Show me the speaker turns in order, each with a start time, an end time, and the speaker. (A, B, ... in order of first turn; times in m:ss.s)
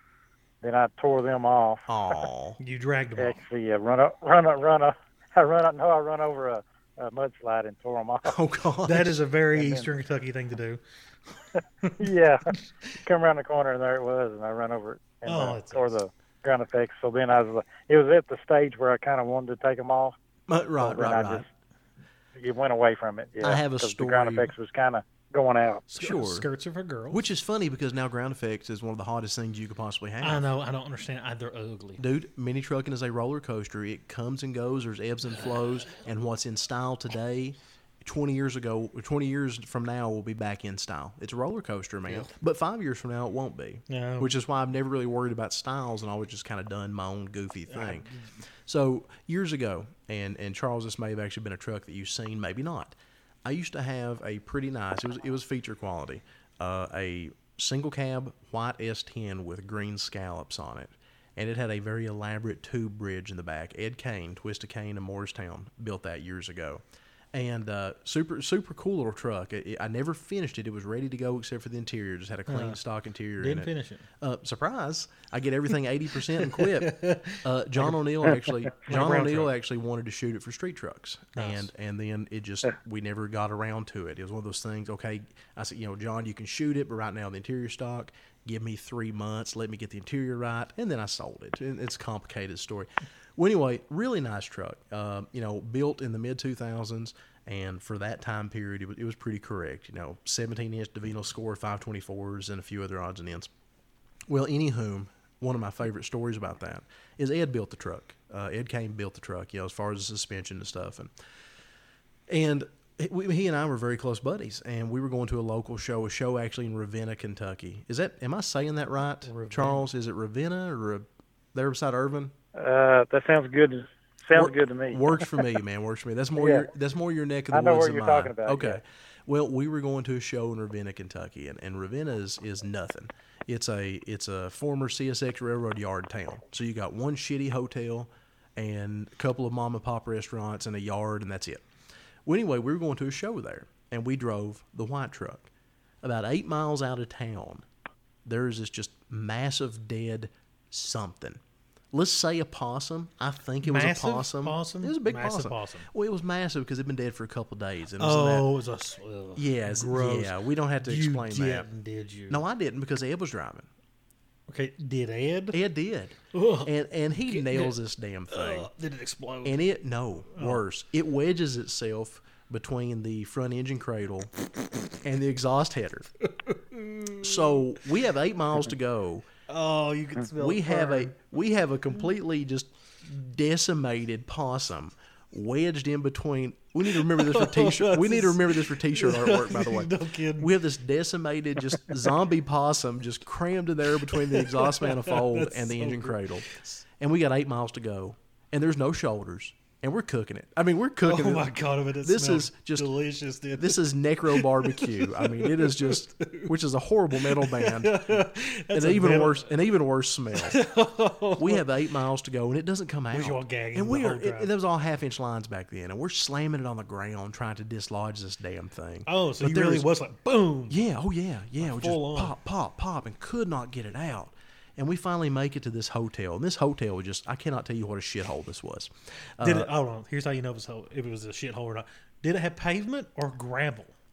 0:00.6-0:01.9 A
0:01.9-0:02.6 B
0:02.6-0:03.4 C
0:03.2-0:08.4 A
0:08.2-0:09.2 B
0:08.9-0:10.8 C
0:09.5-0:09.9 A
0:12.0-0:20.2 A
0:15.3-0:15.9 C
0:20.5-0:21.5 B
0:20.8-0:21.5 A
0:22.4-0:25.8 A
0:23.4-0:24.5 B
0:25.9-0:27.2 C
0:26.0-0:26.5 B
0:27.1-0:30.4 B
0:30.2-0:32.0 C
0:32.0-0:48.1 B
0:43.9-0:44.3 C
0:47.7-0:48.3 C
0:48.7-1:43.5 B
1:12.5-1:12.8 C
1:13.4-1:14.1 C
1:16.4-1:19.5 C
1:21.4-1:21.7 C
1:44.3-1:51.1 B
1:52.3-2:02.3 B
1:59.3-1:59.8 C
2:02.6-2:05.3 A
2:04.3-2:21.6 B
2:06.4-2:06.7 A
2:07.5-2:08.8 A
2:22.2-2:25.5 B
2:26.0-2:27.6 B
2:28.2-2:31.4 B
2:31.9-2:38.5 B
2:33.6-2:35.9 C
2:38.0-2:42.4 C
2:39.4-2:41.7 B
2:42.3-2:43.7 B
2:44.5-2:45.6 C
2:45.5-2:48.7 B
2:46.3-2:46.7 C
2:47.3-2:47.8 C
2:48.3-2:49.6 C
2:49.4-2:54.3 B
2:50.4-2:50.6 C
2:55.0-2:56.1 B
2:56.3-2:57.6 C
2:57.2-2:59.3 B
2:59.5-3:01.2 C
3:00.4-3:16.5 B
3:06.9-3:10.5 C
3:14.1-3:16.8 C
3:17.0-3:22.9 B
3:21.0-3:26.5 C
3:23.6-3:30.6 B
3:27.2-3:29.5 C
3:30.4-3:31.6 C
3:31.4-3:39.9 B
3:33.1-3:34.5 C
3:39.1-3:40.8 C
3:40.7-3:49.7 B
3:41.6-3:42.3 C
3:49.4-3:53.9 C